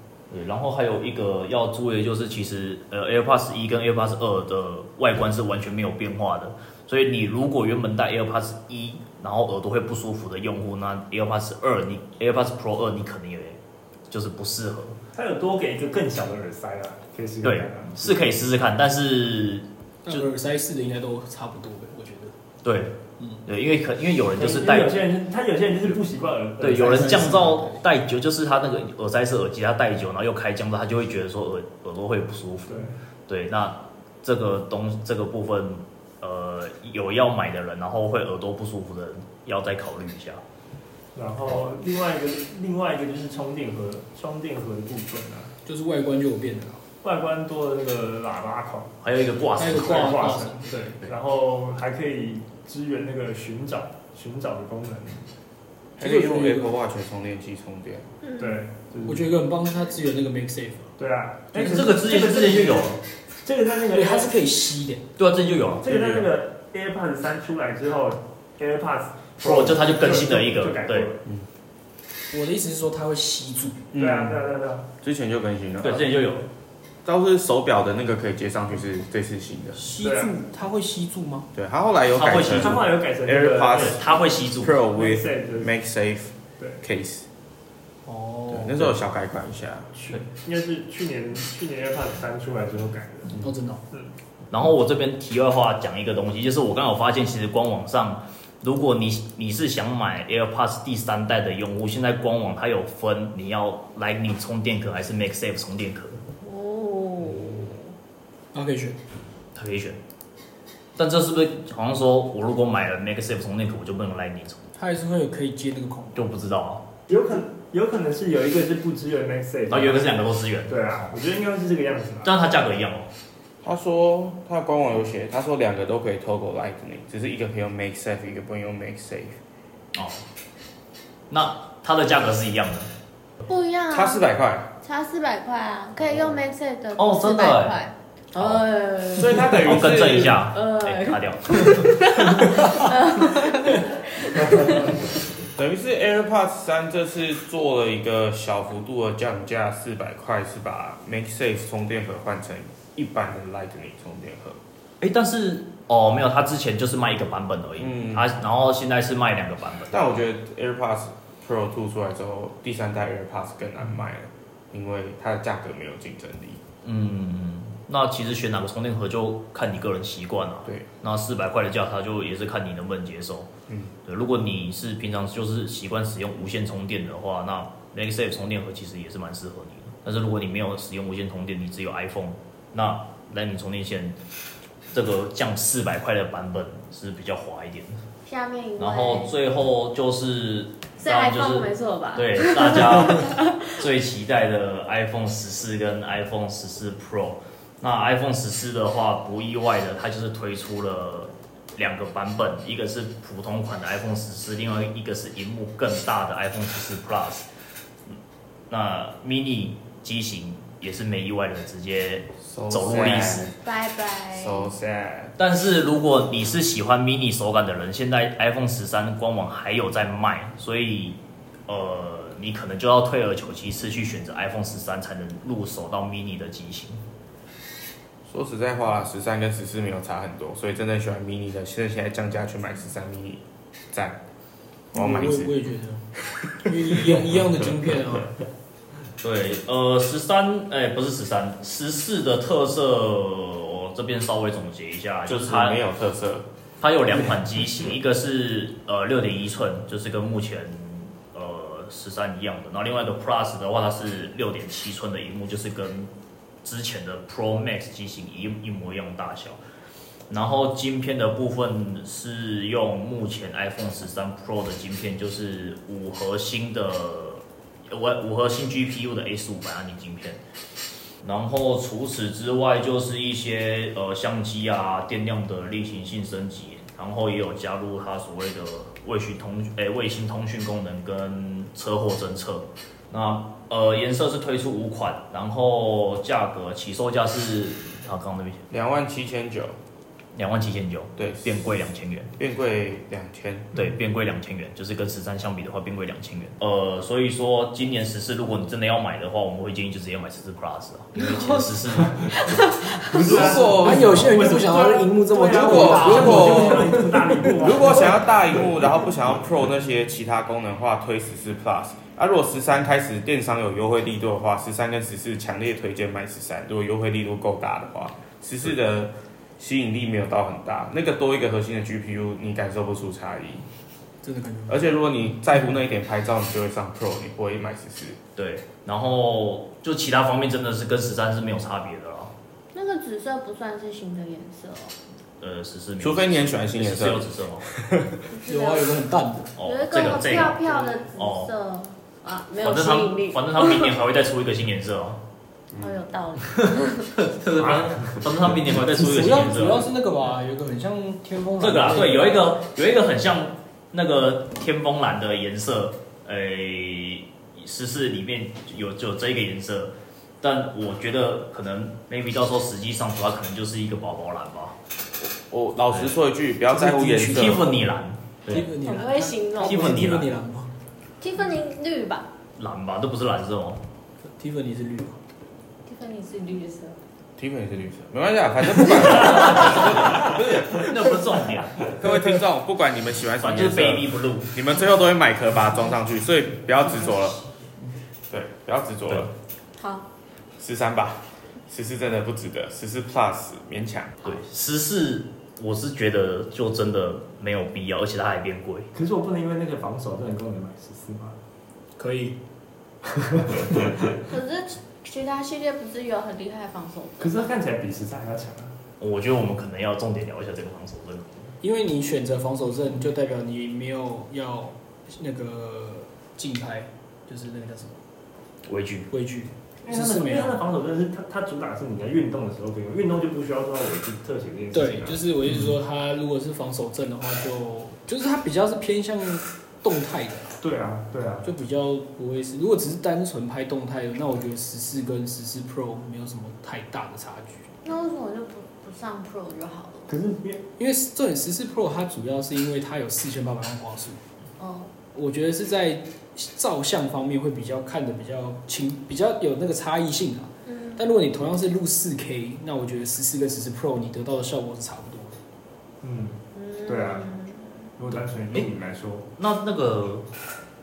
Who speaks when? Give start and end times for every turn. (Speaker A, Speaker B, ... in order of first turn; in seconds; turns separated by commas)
Speaker A: 0.3-13.6, Speaker A: 14.1-15.0, Speaker B: 15.1-18.2, Speaker A: 17.4-20.2, Speaker C: 20.0-22.3, Speaker A: 22.6-25.0, Speaker B: 24.4-27.5, Speaker A: 26.6-40.4, Speaker C: 26.8-27.8, Speaker B: 32.7-32.9, Speaker B: 41.1-45.5, Speaker C: 45.6-46.8, Speaker B: 47.0-48.9, Speaker A: 49.0-50.2, Speaker C: 49.5-51.0, Speaker B: 49.6-55.3, Speaker D: 56.0-58.1, Speaker C: 56.0-56.7, Speaker B: 58.4-59.3, Speaker C: 59.0-60.9, Speaker B: 61.0-64.3, Speaker A: 61.5-63.0, Speaker C: 63.9-65.0, Speaker A: 65.2-65.9, Speaker B: 65.8-71.2, Speaker D: 65.9-66.2, Speaker A: 69.4-71.1, Speaker C: 72.3-73.9, Speaker D: 73.9-74.4, Speaker B: 74.0-74.9, Speaker D: 75.0-76.0, Speaker A: 75.8-76.5, Speaker D: 77.0-79.8, Speaker C: 79.8-81.5, Speaker B: 80.0-80.3, Speaker D: 81.5-84.0, Speaker A: 82.1-82.8, Speaker B: 82.5-84.0, Speaker A: 83.7-84.8, Speaker D: 84.6-87.3, Speaker B: 84.8-85.7, Speaker C: 88.0-88.9, Speaker D: 88.5-89.9, Speaker B: 90.0-93.4, Speaker C: 93.4-93.8, Speaker A: 94.5-106.2, Speaker E: 106.4-107.9, Speaker C: 108.5-109.0, Speaker A: 109.5-110.0, Speaker A: 111.0-114.7, Speaker C: 114.8-116.2, Speaker A: 116.1-116.8, Speaker B: 117.1-120.1, Speaker A: 119.7-120.8, Speaker B: 120.7-122.3, Speaker A: 122.2-123.1, Speaker D: 123.6-129.4, Speaker A: 129.9-130.2, Speaker A: 131.3-132.9, Speaker E: 133.4-134.2, Speaker D: 133.9-134.7, Speaker E: 134.8-139.7, Speaker A: 136.9-137.8, Speaker A: 138.3-138.6, Speaker D: 139.1-140.4, Speaker A: 139.4-141.9, Speaker E: 140.3-144.9, Speaker D: 145.5-154.6, Speaker A: 155.0-160.0, Speaker D: 157.8-158.3, Speaker D: 159.9-166.6, Speaker A: 166.8-173.5, Speaker D: 173.7-173.9, Speaker A: 174.0-184.2, Speaker A: 184.9-188.0, Speaker E: 188.2-189.3, Speaker A: 188.8-207.4, Speaker E: 191.0-193.8, Speaker A: 208.7-213.5, Speaker D: 212.4-213.5, Speaker E: 213.6-214.7, Speaker D: 214.3-215.3, Speaker A: 215.4-227.0, Speaker D: 228.3-234.2, Speaker D: 234.9-235.5, Speaker C: 234.9-238.3, Speaker A: 239.2-245.8, Speaker D: 245.2-246.5, Speaker A: 246.8-256.1, Speaker A: 256.6-259.6, Speaker A: 260.3-270.4, Speaker A: 271.2-288.7, Speaker D: 288.7-289.8, Speaker A: 290.3-292.3, Speaker D: 291.2-291.6, Speaker D: 292.4-293.7, Speaker A: 293.7-302.6, Speaker E: 301.2-301.7, Speaker E: 302.4-303.1, Speaker B: 303.1-308.8, Speaker C: 303.2-307.5, Speaker D: 303.2-304.3, Speaker D: 305.5-307.0, Speaker D: 307.6-323.6, Speaker C: 324.2-324.8, Speaker D: 324.7-328.2, Speaker A: 328.4-332.3, Speaker E: 332.7-334.9, Speaker A: 335.4-337.7, Speaker D: 336.0-337.3, Speaker E: 338.3-339.0, Speaker C: 338.4-339.6, Speaker A: 339.6-341.5, Speaker E: 339.6-343.9, Speaker A: 342.6-345.2, Speaker E: 345.7-347.1, Speaker A: 346.6-349.9, Speaker B: 347.6-348.3, Speaker C: 348.8-352.4, Speaker A: 351.6-364.8, Speaker D: 365.2-367.6, Speaker C: 366.7-367.8, Speaker A: 367.3-368.6, Speaker C: 368.5-370.7, Speaker E: 368.5-370.1, Speaker A: 369.6-370.3, Speaker E: 371.2-372.3, Speaker A: 372.6-373.8, Speaker C: 374.4-375.2, Speaker E: 375.8-377.0, Speaker D: 377.4-380.9, Speaker A: 379.1-381.9, Speaker D: 381.9-387.4, Speaker A: 383.4-384.5, Speaker D: 388.3-389.3, Speaker E: 389.8-390.1, Speaker D: 390.6-394.2, Speaker A: 394.2-398.9, Speaker B: 398.9-401.4, Speaker C: 402.0-402.4, Speaker B: 403.1-404.0, Speaker E: 404.2-407.4, Speaker B: 407.2-408.8, Speaker A: 409.0-411.5, Speaker C: 411.6-418.0, Speaker A: 418.7-419.1, Speaker C: 419.1-420.6, Speaker B: 419.8-425.2, Speaker C: 424.7-430.6, Speaker B: 430.6-431.5, Speaker C: 431.4-437.7, Speaker E: 437.8-440.1, Speaker B: 440.1-440.6, Speaker C: 440.8-444.2, Speaker E: 444.6-444.9, Speaker C: 445.1-455.4, Speaker E: 450.6-451.1, Speaker B: 456.0-457.2, Speaker E: 456.5-457.9, Speaker B: 458.0-459.3, Speaker A: 459.4-460.2